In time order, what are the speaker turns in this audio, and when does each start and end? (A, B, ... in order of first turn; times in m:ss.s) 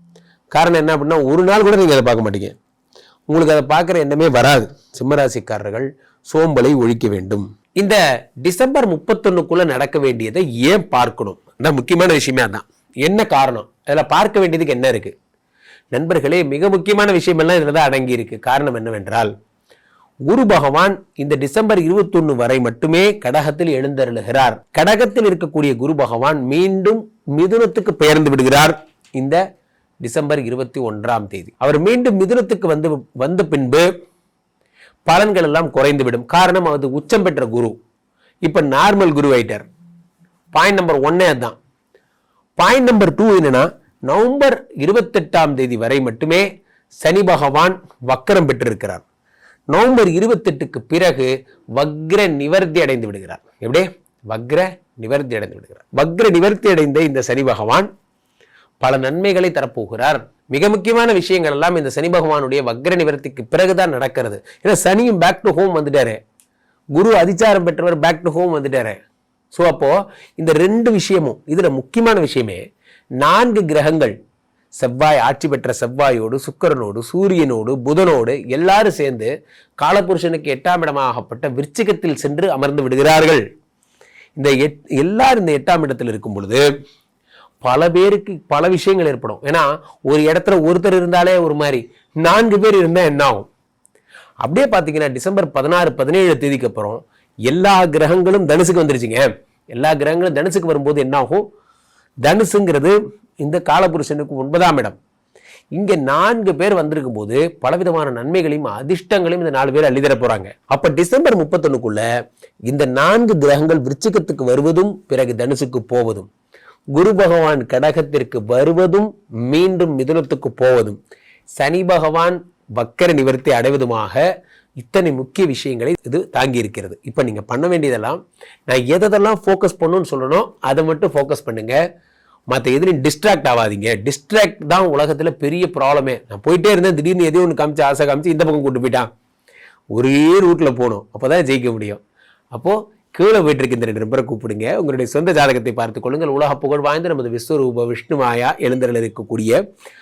0:00.5-0:02.5 A
0:03.3-0:15.1 A
0:15.9-0:19.3 A
0:20.2-0:29.4 A
0:30.0-0:33.9 A
0:35.0-0:37.7 A
0:38.4-0:39.6 A
0:40.5-0:41.6 A
0:42.6-0:46.5 A
0:47.0-0:49.0 A
0:49.7-0:57.9 A
0:58.8-1:06.2 A
1:07.0-1:09.0 A
1:09.5-1:12.6 A
1:13.2-1:14.1 A
1:14.8-1:23.4 A
1:24.4-1:26.6 A
1:27.6-1:33.5 A
1:34.4-1:41.4 A
1:42.2-1:45.0 A
1:45.7-1:52.0 A
1:52.6-1:56.3 A
1:56.9-2:01.0 A
2:01.6-2:04.2 A
2:04.8-2:11.8 A
2:12.5-2:19.1 A
2:19.9-2:22.0 A
2:22.5-2:29.6 A